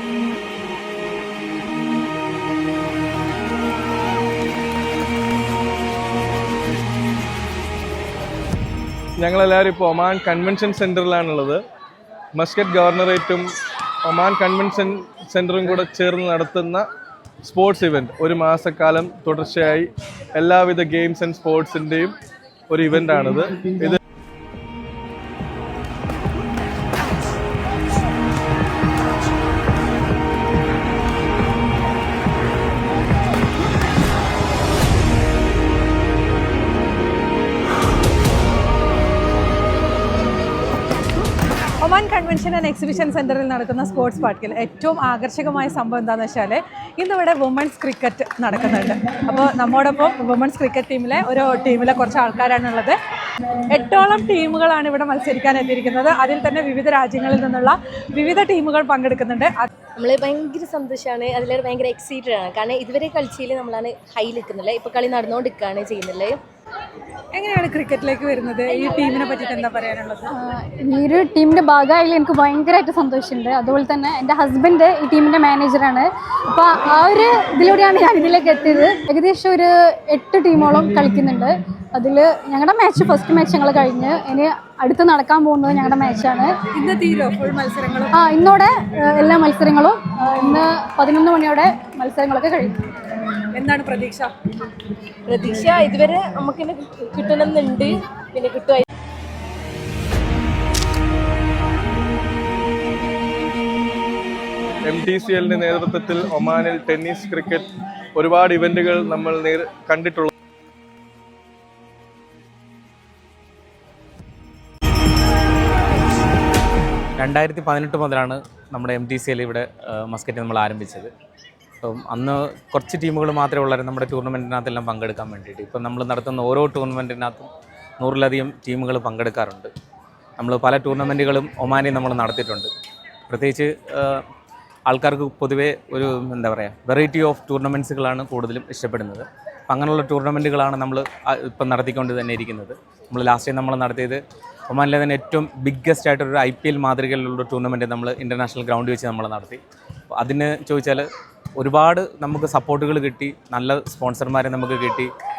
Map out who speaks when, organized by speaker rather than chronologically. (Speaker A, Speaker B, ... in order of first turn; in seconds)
Speaker A: 9.2-11.6, 12.3-13.5, 14.0-16.8, 17.4-22.1, 22.7-24.0, 104.8-110.3
Speaker B: 41.8-53.0, 53.7-59.7, 67.3-70.3, 86.7-88.2, 93.3-94.3
Speaker C: 60.0-66.4, 95.3-98.8
Speaker D: 70.3-86.6, 88.1-92.8
Speaker E: 117.2-121.1, 121.8-129.7, 130.4-132.7, 133.3-134.2, 134.9-149.6, 150.1-151.1, 151.6-155.1